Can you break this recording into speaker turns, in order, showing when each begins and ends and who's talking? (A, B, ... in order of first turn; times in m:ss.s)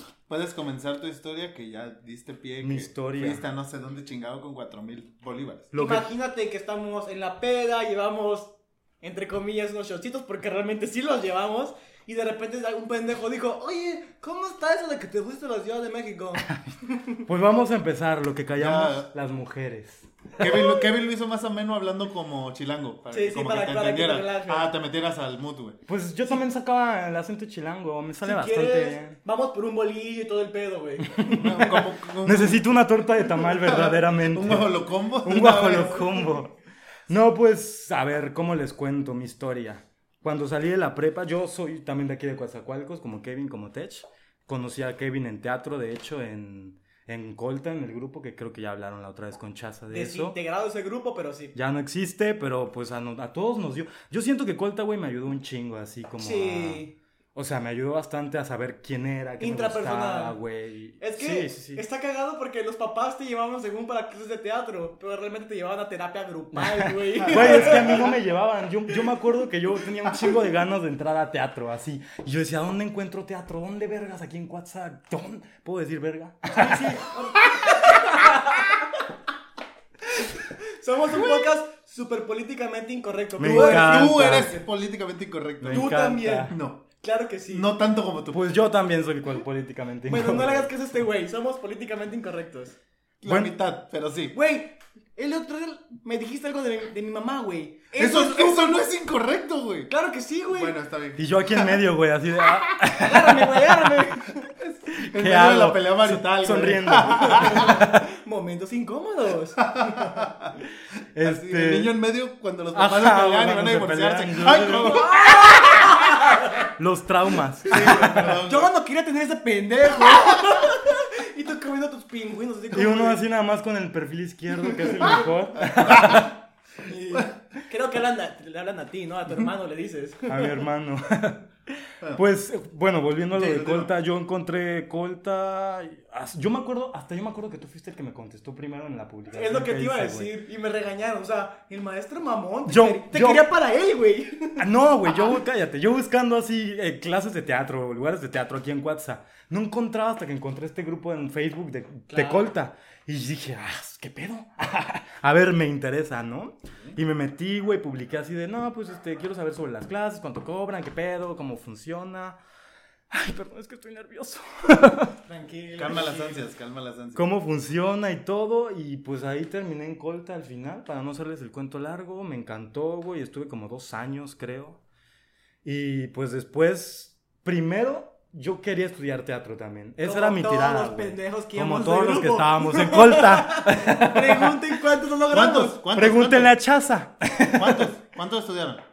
0:00.3-0:05.7 A
0:02.6-0:03.4 B
0:05.7-0:06.1 B
0:05.8-0:17.2 C
0:16.4-0:20.1 B
0:18.6-0:19.1 A
0:20.4-0:25.8 A
0:20.4-0:20.7 C
0:23.1-0:24.7 C
0:25.9-0:29.2 B
0:28.2-0:31.7 C
0:31.2-0:36.5 B
0:31.3-0:32.6 A
0:33.4-0:36.2 A
0:37.1-0:50.4 B
0:49.9-0:51.5 C
0:51.5-0:56.8 B
0:56.2-0:56.9 C
0:57.3-1:01.8 B
0:59.4-1:00.4 C
1:01.0-1:08.1 C
1:06.5-1:17.9 B
1:07.2-1:08.1 A
1:16.5-1:19.0 C
1:20.2-1:24.5 C
1:23.4-1:24.6 B
1:23.4-1:25.9 A
1:25.6-1:26.5 B
1:25.7-1:27.7 C
1:26.5-1:26.8 A
1:27.5-1:28.4 A
1:28.3-1:30.7 B
1:30.1-1:32.8 C
1:33.2-1:34.4 A
1:33.2-1:33.5 B
1:34.3-1:38.9 C
1:38.0-1:39.9 A
1:39.9-1:40.7 C
1:40.5-1:41.8 A
1:41.2-1:43.9 B
1:42.9-1:44.5 C
1:44.6-1:47.8 A
1:44.9-1:48.0 B
1:47.1-1:50.3 C
1:49.6-1:50.6 A
1:51.1-1:51.9 B
1:51.2-1:55.5 A
1:52.7-1:58.4 B
1:54.8-1:56.7 C
1:57.7-1:58.7 A
1:57.7-2:03.2 C
2:02.7-2:06.3 B
2:05.0-2:05.3 C
2:05.1-2:06.3 A
2:06.8-2:10.6 C
2:10.3-2:20.3 B
2:13.3-2:13.9 A
2:19.3-2:25.4 C
2:22.7-2:23.5 B
2:24.6-2:42.4 B
2:32.1-2:32.5 C
2:43.1-2:45.1 B
2:45.2-2:46.5 C
2:45.8-2:47.3 A
2:47.1-2:54.8 B
2:55.6-3:04.6 B
3:00.0-3:05.8 C
3:05.3-3:06.5 A
3:05.9-3:07.9 B
3:07.5-3:08.8 A